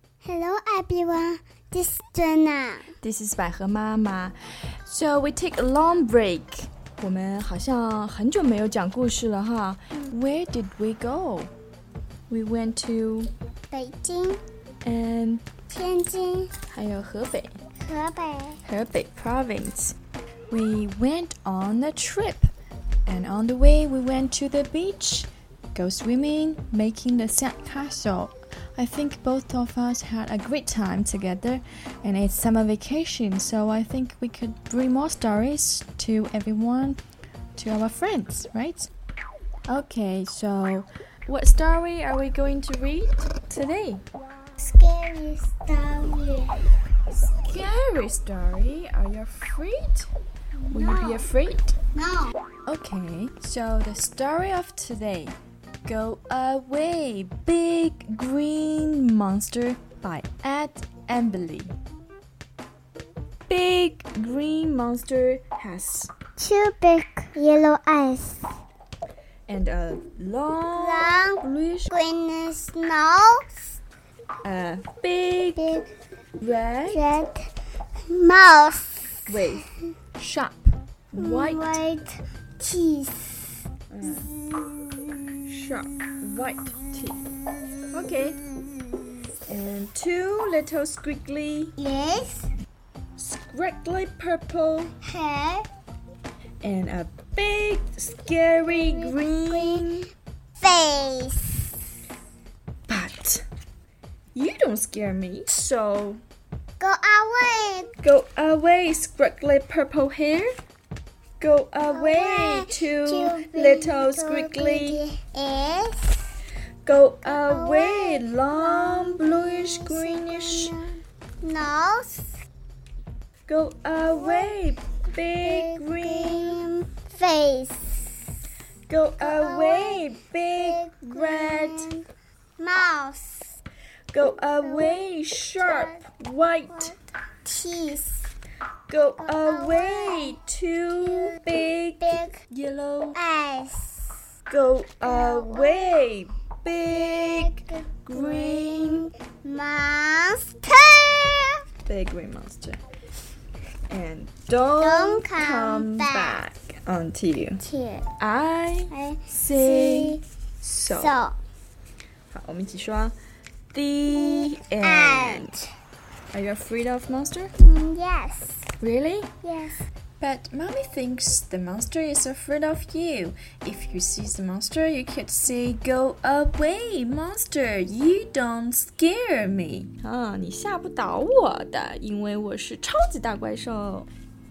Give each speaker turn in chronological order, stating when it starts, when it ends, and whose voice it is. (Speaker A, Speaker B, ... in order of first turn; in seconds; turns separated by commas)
Speaker A: 0.2-2.9, Speaker B: 3.0-4.3, Speaker B: 4.9-11.5, Speaker B: 12.3-13.3, Speaker A: 13.7-14.4, Speaker B: 14.8-15.5, Speaker A: 15.7-16.5, Speaker B: 16.7-17.6, Speaker A: 17.8-18.6, Speaker B: 18.6-20.0, Speaker B: 20.5-22.5, Speaker B: 23.1-37.0, Speaker B: 37.6-38.9, Speaker B: 39.7-44.0, Speaker A: 44.6-46.6, Speaker B: 47.3-50.1, Speaker A: 50.6-51.3, Speaker B: 50.7-51.8, Speaker A: 51.9-52.3, Speaker B: 52.7-61.8, Speaker B: 63.5-66.1, Speaker A: 66.4-68.5, Speaker B: 69.5-71.9, Speaker A: 70.7-73.8, Speaker B: 74.4-75.8, Speaker A: 75.6-75.9, Speaker B: 76.4-77.0, Speaker A: 76.9-77.5, Speaker A: 78.0-79.6, Speaker B: 79.3-79.6, Speaker B: 80.2-81.8, Speaker A: 81.2-83.6, Speaker B: 83.9-84.3, Speaker A: 84.4-85.2, Speaker B: 85.4-87.3, Speaker B: 87.9-88.4, Speaker B: 89.5-91.8, Speaker A: 91.8-92.5, Speaker B: 93.2-95.0, Speaker A: 95.0-95.7, Speaker B: 96.6-100.1, Speaker A: 98.6-100.0, Speaker A: 100.6-101.8, Speaker B: 102.9-103.4, Speaker B: 104.3-106.2, Speaker A: 106.8-107.9, Speaker B: 108.0-110.5, Speaker B: 111.4-115.0, Speaker A: 111.9-116.4, Speaker B: 116.8-120.8, Speaker A: 117.2-122.4, Speaker B: 123.5-126.6, Speaker A: 124.0-124.7, Speaker A: 125.4-128.2, Speaker B: 128.9-131.9, Speaker A: 129.2-132.1, Speaker A: 132.6-133.6, Speaker B: 134.1-137.0, Speaker A: 134.5-136.1, Speaker A: 136.7-138.3, Speaker B: 138.9-143.2, Speaker A: 139.2-142.4, Speaker A: 143.1-144.3, Speaker B: 144.5-149.1, Speaker A: 145.0-146.0, Speaker A: 146.9-151.6, Speaker B: 151.9-152.8, Speaker B: 153.9-157.6, Speaker A: 154.8-156.4, Speaker A: 157.6-158.1, Speaker B: 158.2-161.2, Speaker A: 158.9-160.2, Speaker A: 160.9-161.4, Speaker B: 162.3-163.2, Speaker B: 163.7-165.5, Speaker A: 164.1-165.7, Speaker B: 166.3-167.5, Speaker A: 167.6-168.7, Speaker B: 168.8-169.3, Speaker A: 169.4-169.8, Speaker B: 170.2-184.1